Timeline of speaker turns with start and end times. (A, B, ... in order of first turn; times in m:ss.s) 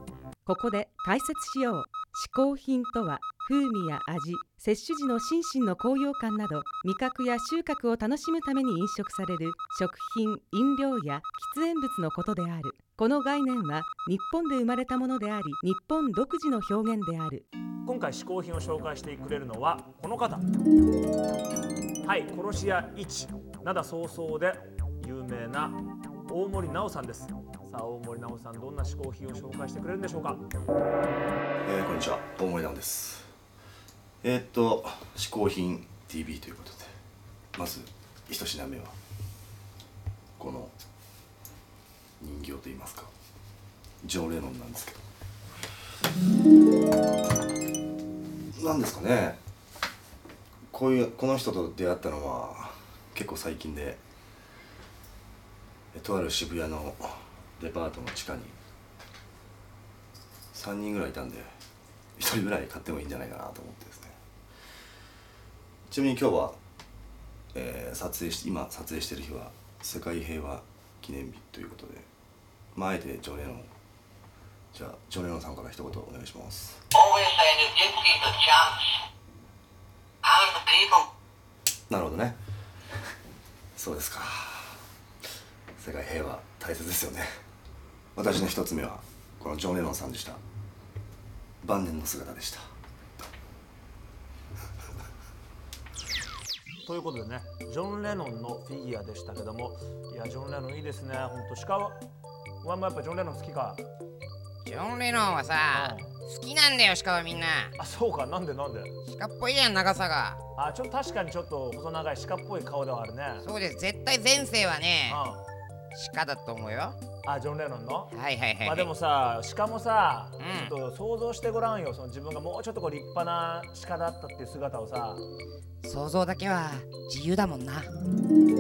0:00.5-0:17.5 A
0:17.9-0:20.5 B
0:22.0-0:30.4 B
0:31.6-0:33.3 C
0:34.2-0:36.9 C
0:37.6-0:39.0 C
0:40.4-0:40.7 C
0:42.2-0:43.1 C
0:44.0-0:45.0 C
0:48.6-0:49.4 C
0:50.7-0:54.0 C
0:55.9-0:58.6 C
1:00.5-1:01.5 C
1:02.2-1:04.2 C
1:05.9-1:06.6 C
1:07.5-1:12.1 C
1:12.7-1:13.7 C
1:14.7-1:16.8 C
1:17.0-1:18.6 D
1:20.3-1:21.0 D
1:21.9-1:22.4 C
1:23.8-1:24.8 C
1:25.8-1:27.3 C
1:28.2-1:30.4 C
1:31.6-1:32.7 C
1:36.9-1:42.0 B
1:42.6-1:43.8 B
1:44.6-1:47.7 E
1:45.7-1:46.1 B
1:47.8-1:48.9 B
1:49.1-1:50.4 E
1:50.6-1:53.5 B
1:53.4-1:55.2 E
1:55.1-1:55.4 B
1:55.9-1:57.0 E
1:57.2-2:05.2 B
1:58.1-1:58.9 E
2:00.4-2:00.7 E
2:05.8-2:07.9 E